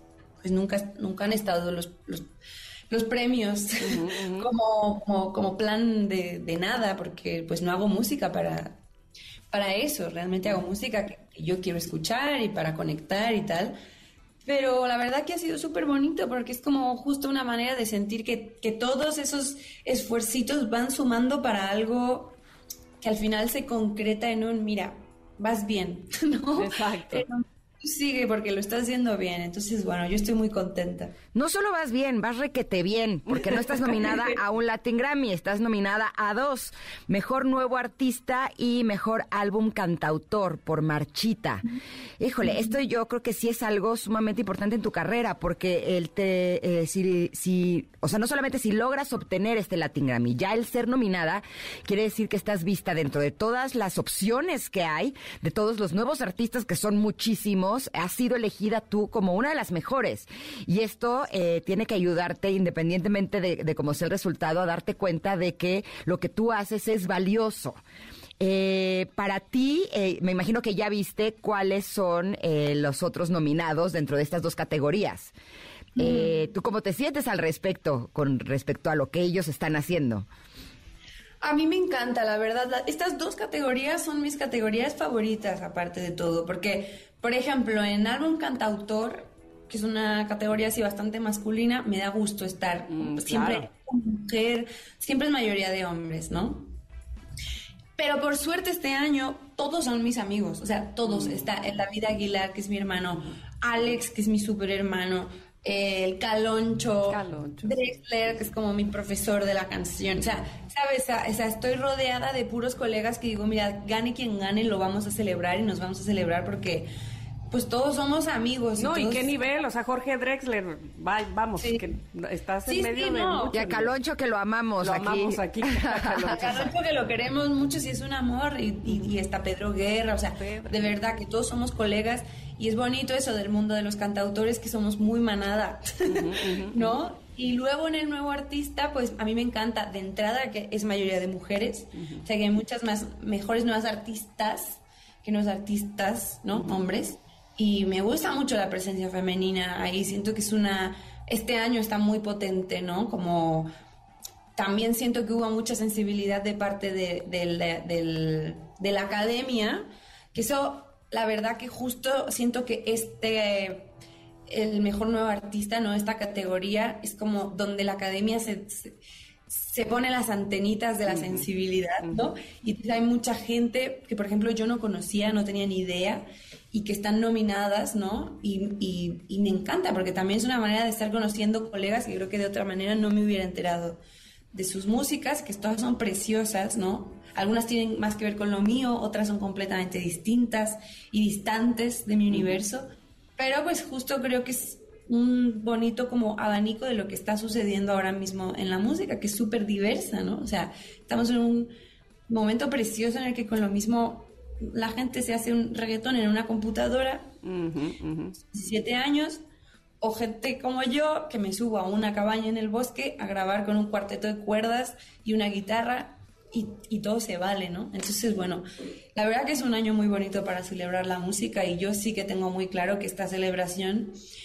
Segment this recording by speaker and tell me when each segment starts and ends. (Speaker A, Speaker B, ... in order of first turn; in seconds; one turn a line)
Speaker A: 0.4-2.3
Speaker A: 2.9-8.8
Speaker B: 3.8-4.5
Speaker A: 9.5-13.8
Speaker A: 14.4-22.4
Speaker A: 23.0-31.2
Speaker B: 26.6-27.3
Speaker C: 31.3-41.6
Speaker C: 42.2-67.8
Speaker C: 68.4-75.3
Speaker C: 76.0-80.3
Speaker A: 81.4-96.7
Speaker B: 92.9-93.7
Speaker A: 98.0-116.9
Speaker B: 101.1-101.5
Speaker B: 107.1-108.0
Speaker A: 117.5-119.4
Speaker B: 118.8-123.9
Speaker A: 121.6-121.9
Speaker A: 122.7-123.5
Speaker C: 123.5-126.3
Speaker B: 124.8-126.7
Speaker A: 126.3-153.7
Speaker B: 130.4-130.8
Speaker B: 136.0-137.0
Speaker B: 142.0-142.2
Speaker A: 154.6-163.9
Speaker A: 164.5-184.0
Speaker B: 171.1-171.5
Speaker A: 184.5-201.7
Speaker A: 202.3-207.3
Speaker B: 207.4-208.4
Speaker A: 208.4-209.4
Speaker A: 210.0-224.2